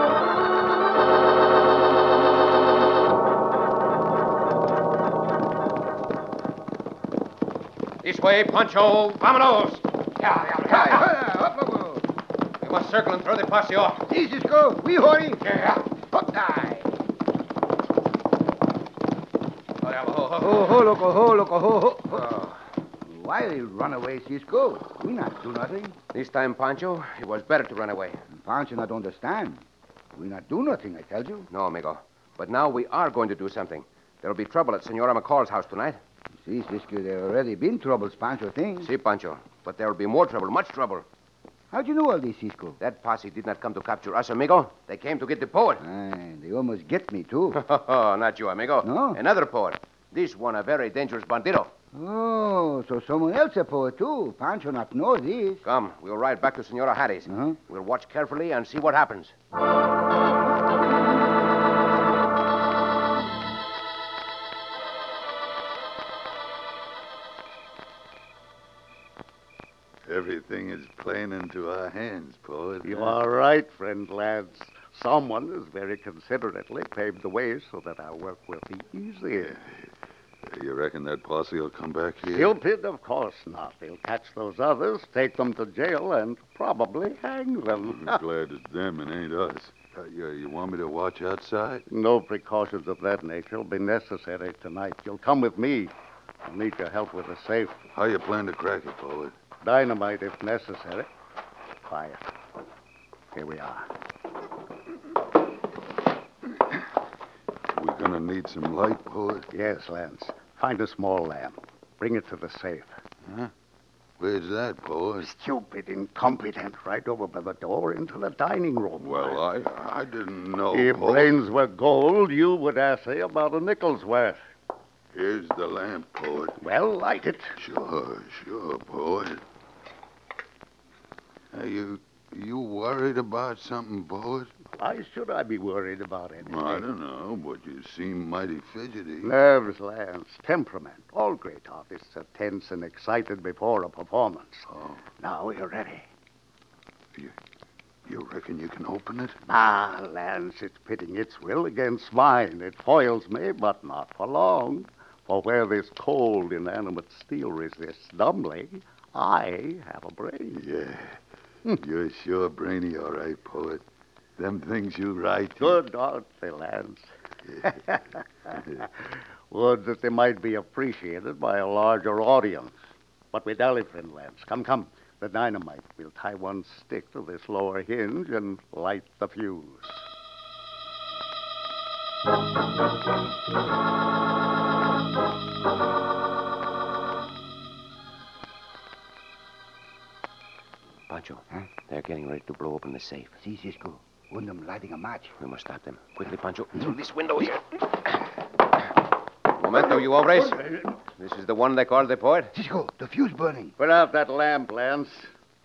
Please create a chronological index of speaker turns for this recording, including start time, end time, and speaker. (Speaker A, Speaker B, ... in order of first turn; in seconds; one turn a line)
Speaker A: 8.0-11.1
Speaker B: 10.6-12.1
Speaker A: 12.6-14.1
Speaker B: 14.1-15.4
Speaker A: 15.4-15.8
Speaker B: 16.0-16.9
Speaker A: 19.8-20.7
Speaker B: 20.4-22.3
Speaker A: 22.1-22.6
Speaker B: 23.1-26.0
Speaker A: 26.1-28.2
Speaker B: 28.3-29.6
Speaker B: 30.1-31.5
Speaker A: 31.5-36.0
Speaker B: 36.4-38.9
Speaker A: 38.8-41.0
Speaker B: 41.7-42.8
Speaker A: 42.8-45.8
Speaker B: 45.8-47.6
Speaker A: 47.5-51.7
Speaker B: 48.8-49.2
Speaker B: 51.9-55.6
Speaker A: 55.6-59.3
Speaker B: 57.3-57.6
Speaker C: 70.1-73.2
Speaker D: 72.8-79.5
Speaker C: 80.5-82.6
Speaker D: 82.3-88.2
Speaker C: 87.9-91.8
Speaker D: 91.9-95.9
Speaker D: 96.4-97.8
Speaker C: 97.9-99.3
Speaker D: 99.6-101.1
Speaker D: 101.8-102.3
Speaker D: 103.3-103.9
Speaker C: 107.7-109.5
Speaker D: 109.5-112.9
Speaker C: 113.3-113.5
Speaker C: 114.2-115.3
Speaker D: 115.2-119.4
Speaker C: 119.0-121.4
Speaker D: 120.7-124.4
Speaker C: 125.1-126.6
Speaker D: 126.6-127.5
Speaker C: 127.6-129.4
Speaker C: 131.5-134.5
Speaker D: 134.7-136.9
Speaker C: 136.4-139.3
Speaker D: 139.2-146.1
Speaker C: 144.7-145.0
Speaker C: 148.1-149.4
Speaker D: 149.5-160.6
Speaker C: 160.5-161.2
Speaker C: 161.7-163.8
Speaker C: 164.4-165.8
Speaker D: 165.6-167.1
Speaker C: 167.5-167.8
Speaker D: 167.7-168.1
Speaker D: 168.8-172.8
Speaker D: 173.3-180.1
Speaker A: 191.1-193.4
Speaker B: 193.4-195.3
Speaker A: 195.4-197.8
Speaker A: 199.6-202.5
Speaker B: 202.5-203.7
Speaker D: 203.8-205.3